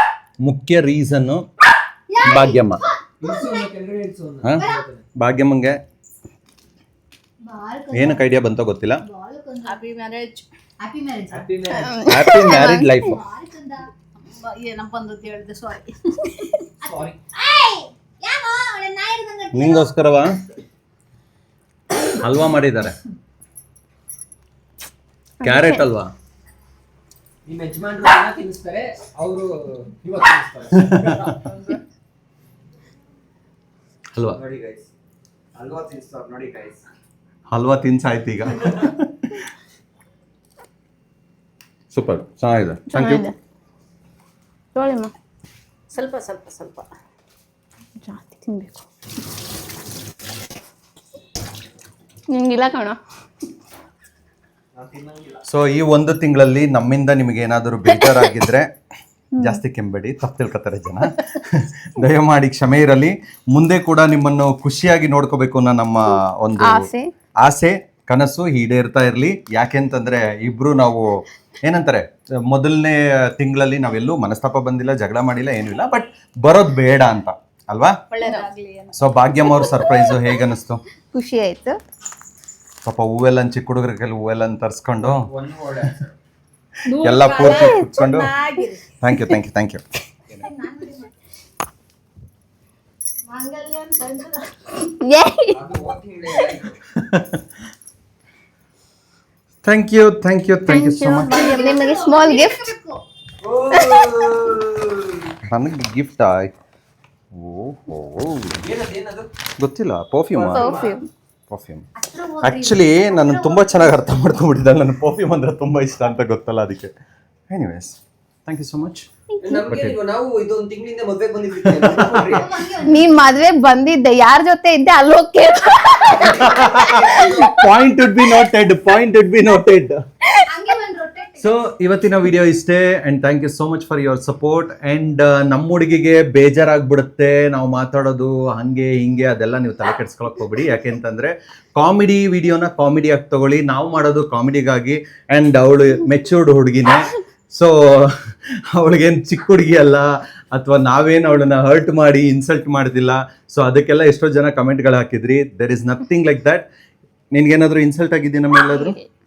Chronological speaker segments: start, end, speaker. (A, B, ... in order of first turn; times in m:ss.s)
0:00.4-0:01.4 A
0:02.1-0:03.6 B
0:02.2-0:02.8 A
0:03.2-0:05.0 C
0:05.2-0:05.8 A
0:07.4-0:08.2 B
0:07.9-0:09.0 A
0:09.0-0:11.5 B
0:11.3-0:12.0 C
0:11.7-0:13.1 D
0:12.0-0:13.2 A
0:13.0-0:19.9 B
0:16.8-0:17.2 C
0:19.5-0:20.3 A
0:22.1-0:22.9 A
0:25.4-0:25.9 D
0:25.4-0:26.1 A
0:27.5-0:31.7 C
0:30.7-0:31.3 A
0:34.3-0:34.9 C
0:35.6-0:36.8 C
0:37.5-0:39.4 A
0:41.9-0:43.3 A
0:42.9-0:43.4 D
0:44.8-0:45.1 D
0:45.9-0:46.9 B
0:48.0-0:48.8 D
0:52.3-0:53.0 D
0:54.8-0:55.4 C
0:55.5-0:58.7 A
0:58.0-0:58.3 D
0:59.4-1:06.9 A
1:06.6-1:07.1 D
1:07.4-1:18.0 A
1:18.1-1:18.9 B
1:18.2-1:18.5 D
1:19.0-1:20.8 A
1:21.1-1:21.8 D
1:22.8-1:25.3 A
1:25.0-1:26.2 C
1:26.9-1:28.8 B
1:27.0-1:28.3 A
1:27.4-1:27.8 D
1:29.0-1:29.8 A
1:30.4-1:31.1 B
1:33.3-1:34.6 B
1:34.8-1:35.6 D
1:35.5-1:36.8 C
1:37.0-1:37.4 A
1:39.6-1:41.4 A
1:40.7-1:42.7 D
1:41.3-1:43.0 B
1:43.4-1:45.3 C
1:43.7-1:44.0 D
1:45.5-1:46.5 A
1:47.4-1:48.6 A
1:48.6-1:49.3 C
1:49.6-1:50.8 A
1:50.3-1:51.0 C
1:50.5-1:51.1 D
1:51.5-1:51.9 A
1:52.0-1:54.0 B
1:52.4-1:56.9 A
1:57.5-1:59.1 A
1:59.4-2:02.7 C
1:59.6-2:00.0 A
2:01.7-2:02.2 A
2:02.2-2:03.2 B
2:02.8-2:06.4 D
2:06.2-2:07.5 C
2:06.4-2:10.0 A
2:10.5-2:11.5 B
2:11.4-2:28.2 A
2:28.7-2:36.6 A
2:37.3-2:39.0 A
2:38.5-2:39.1 D